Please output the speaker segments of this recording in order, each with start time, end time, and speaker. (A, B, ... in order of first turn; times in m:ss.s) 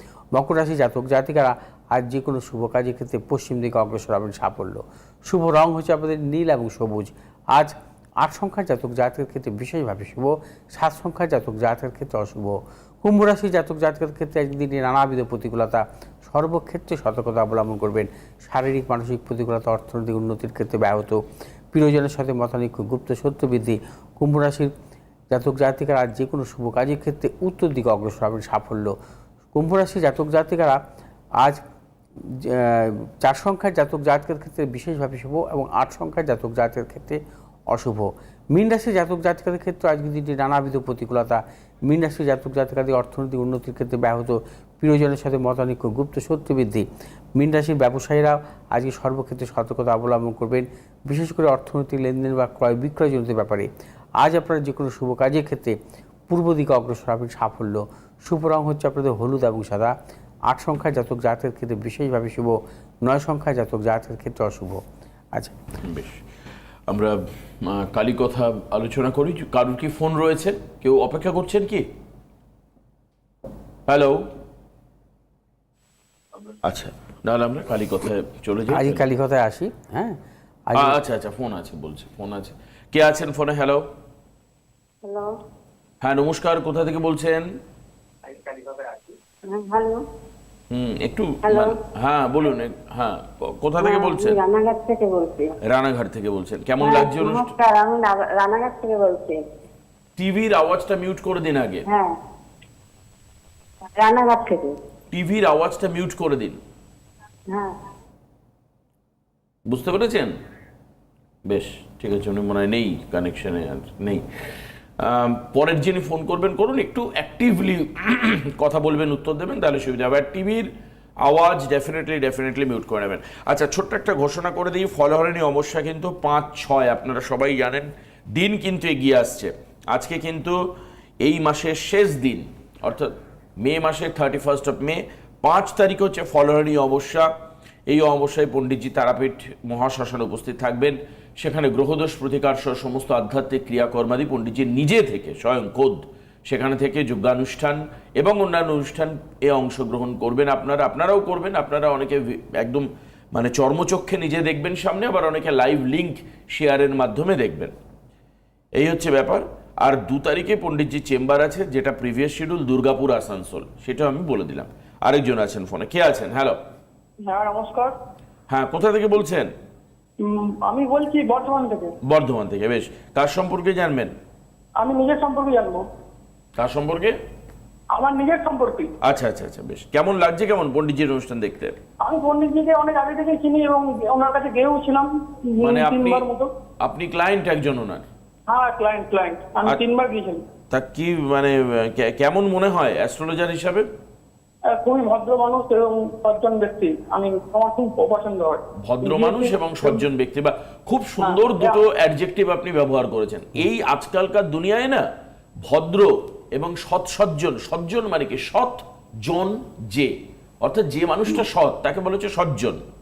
0:00.3-0:24.7 A
0:25.3-0:28.9 A
0:29.5-0:30.8 A
0:32.2-0:53.7 A
0:54.2-0:55.8 A
0:56.3-0:59.9 A
1:00.5-1:04.8 A
1:05.8-1:06.2 B
1:06.9-1:11.9 B
1:13.9-1:14.3 B
1:16.6-1:19.0 B
1:18.7-1:20.2 A
1:20.7-1:21.0 A
1:20.8-1:23.8 B
1:25.0-1:25.3 C
1:26.0-1:27.5 B
1:28.4-1:30.0 C
1:30.7-1:34.4 B
1:31.4-1:31.8 C
1:33.8-1:35.5 C
1:35.6-1:37.5 B
1:36.8-1:39.4 C
1:40.2-1:41.8 B
1:41.9-1:42.2 C
1:44.0-1:44.8 C
1:45.1-1:46.6 B
1:47.5-1:47.8 C
1:49.7-1:50.3 B
1:51.4-1:54.5 B
1:55.0-2:00.7 B
2:01.2-2:10.6 B
2:11.2-2:17.3 B
2:17.9-2:37.7 B
2:38.8-2:46.6 B
2:47.2-2:47.9 D
2:48.5-2:49.5 B
2:50.2-2:51.9 D
2:52.0-2:54.1 B
2:54.8-2:55.8 D
2:56.6-2:57.2 B
2:57.9-2:58.9 D
2:59.0-3:01.8 B
3:02.0-3:06.5 D
3:05.6-3:06.2 B
3:06.8-3:08.0 B
3:08.5-3:10.4 D
3:10.7-3:13.9 B
3:14.7-3:20.0 D
3:18.8-3:25.1 B
3:21.2-3:21.8 D
3:25.6-3:32.8 B